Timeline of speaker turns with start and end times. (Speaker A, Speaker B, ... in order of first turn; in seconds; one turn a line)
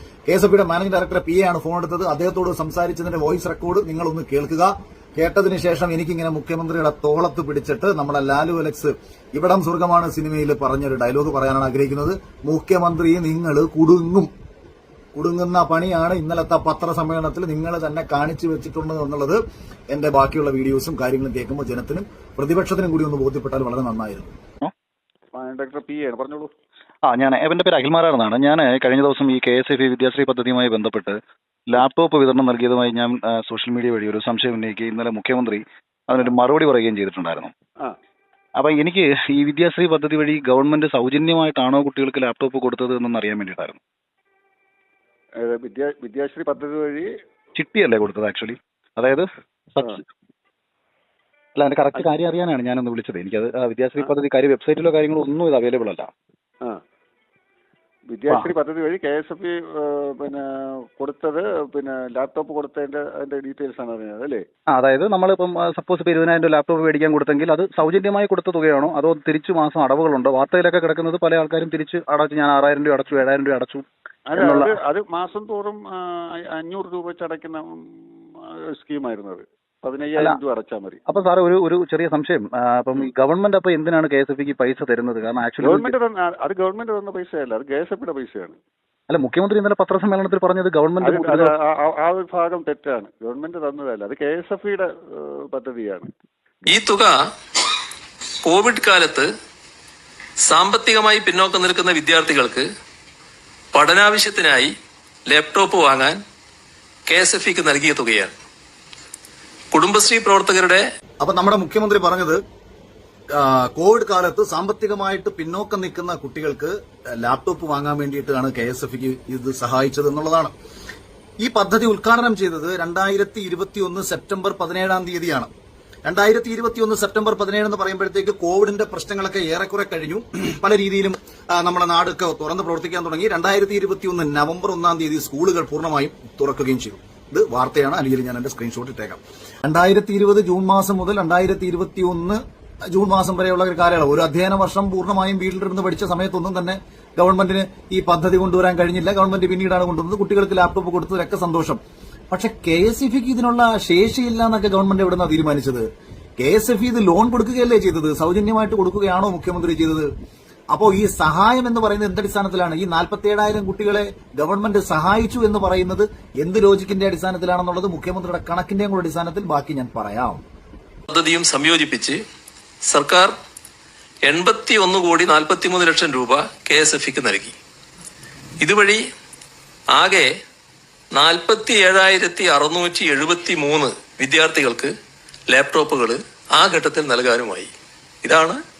Speaker A: 0.3-14.3
Speaker A: 15.1-19.4
Speaker A: 19.9-24.3
Speaker B: 25.3-26.5
Speaker C: 27.0-37.5
Speaker C: 38.6-43.8
Speaker B: 45.4-47.1
Speaker C: 47.5-50.0
Speaker C: 51.5-56.1
Speaker B: 58.1-64.4
Speaker C: 64.7-74.8
Speaker B: 74.3-81.0
Speaker C: 81.0-85.9
Speaker B: 85.6-88.6
Speaker C: 89.1-91.5
Speaker B: 91.0-96.1
Speaker D: 96.7-97.1
Speaker D: 98.4-99.3
Speaker D: 100.5-102.7
Speaker D: 103.7-104.7
Speaker D: 105.3-106.2
Speaker D: 107.1-108.3
Speaker D: 109.7-110.8
Speaker A: 111.2-112.4
Speaker A: 113.3-120.5
Speaker A: 121.4-125.5
Speaker A: 126.0-142.4
Speaker A: 142.9-151.8
Speaker A: 152.3-155.9
Speaker A: 156.4-160.1
Speaker A: 160.7-170.4
Speaker D: 171.1-172.2
Speaker D: 172.9-173.3
Speaker D: 174.2-177.5
Speaker D: 178.6-179.0
Speaker D: 179.9-180.3
Speaker D: 181.1-184.9
Speaker D: 185.5-187.7
Speaker D: 188.2-188.6